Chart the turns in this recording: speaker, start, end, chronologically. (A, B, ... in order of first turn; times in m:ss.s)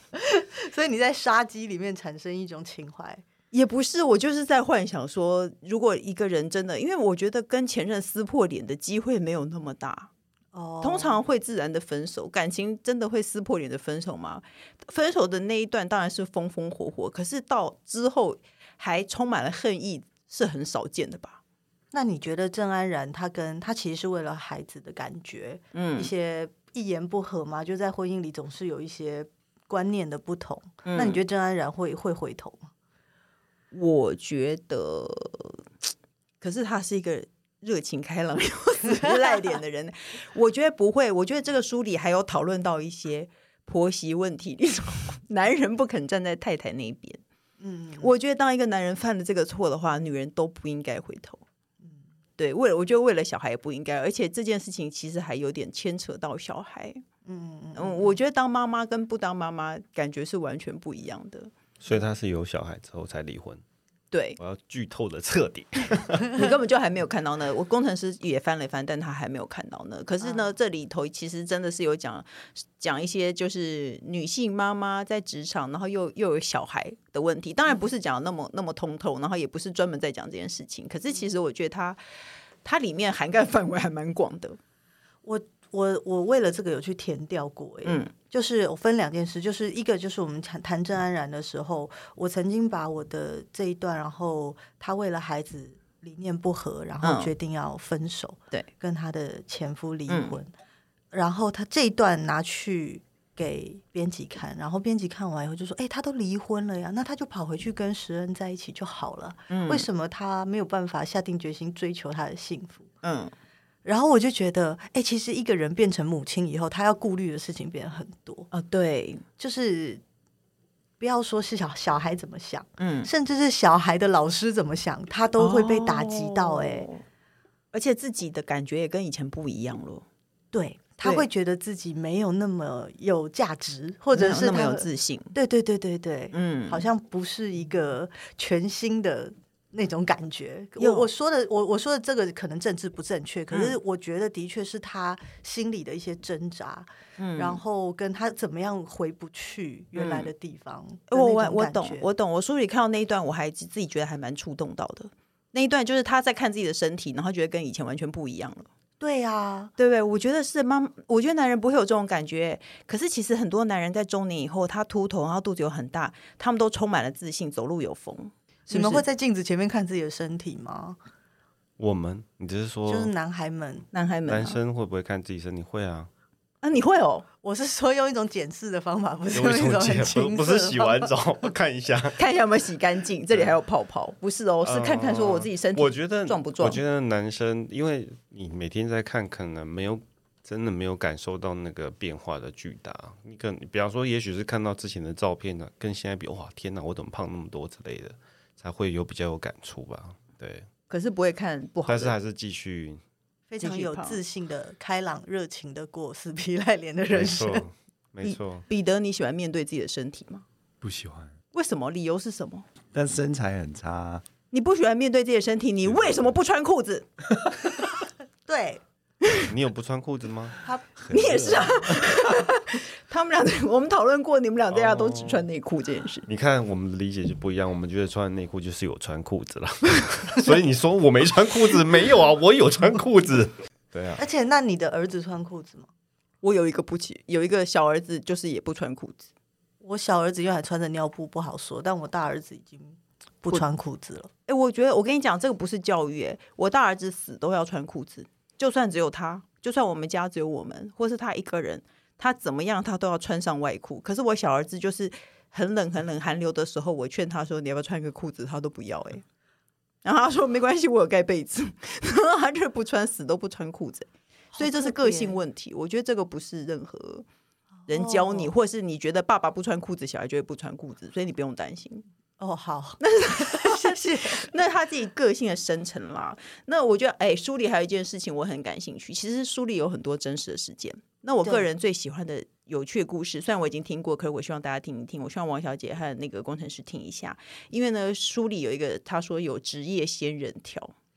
0:00.1-0:03.2 A
0:03.5-0:10.1 B
0:10.5-0:11.2 A
0:10.8-0:21.4 B
0:21.9-0:32.7 A
0:25.7-0:26.1 B
0:30.8-0:31.2 B
0:33.7-0:35.6 B
0:36.4-0:47.2 B
0:47.6-0:48.1 A
0:48.0-0:51.4 B
0:52.4-0:57.0 B
0:57.2-0:58.2 A
0:57.7-1:01.5 B
1:01.8-1:03.6 C
1:04.1-1:04.4 B
1:04.4-1:06.4 C
1:06.3-1:22.0 B
1:10.2-1:10.5 A
1:22.6-1:24.6 B
1:25.2-1:40.5 A
1:27.8-1:28.1 B
1:37.0-1:37.3 B
1:40.1-1:40.3 B
1:41.1-1:52.9 A
1:49.5-1:49.9 B
1:53.0-1:53.3 B
1:53.8-1:58.5 A
1:58.5-1:59.2 B
1:59.4-2:00.0 A
2:01.0-2:06.9 A
2:02.8-2:03.1 B
2:05.4-2:07.0 B
2:07.7-2:10.0 B
2:10.5-2:32.0 A
2:14.1-2:15.3 B
2:16.3-2:16.8 B
2:20.8-2:21.1 B
2:23.5-2:23.8 B
2:27.2-2:27.6 B
2:29.9-2:30.3 B
2:31.1-2:38.7 B
2:39.0-2:39.7 A
2:39.8-2:49.0 B
2:48.7-2:51.0 A
2:51.8-2:53.1 C
2:52.9-2:53.9 A
2:53.9-2:54.6 B
2:54.3-2:56.1 C
2:56.6-2:57.2 B
2:57.4-3:01.1 A
2:59.3-3:02.2 C
3:02.2-3:06.8 B
3:04.6-3:20.7 C
3:20.9-3:22.1 B
3:21.9-3:23.0 C
3:23.5-3:27.6 A
3:23.6-3:24.2 B
3:27.1-3:28.6 C
3:28.2-3:30.4 B
3:30.8-3:31.3 D
3:31.5-3:32.6 B
3:32.9-3:34.2 D
3:34.5-3:37.0 B
3:38.4-3:38.8 A
3:39.4-3:40.6 C
3:41.0-3:41.5 D
3:41.1-3:42.0 C
3:41.1-3:46.2 B
3:44.7-3:45.4 C
3:46.3-3:54.2 C
3:54.2-3:55.9 A
3:56.4-3:59.3 B
3:59.8-4:04.3 A
4:04.5-4:19.2 B
4:20.0-4:27.2 B
4:24.6-4:25.4 A
4:27.9-4:28.5 A
4:27.9-4:32.0 B
4:32.4-4:34.4 A
4:33.0-4:50.9 B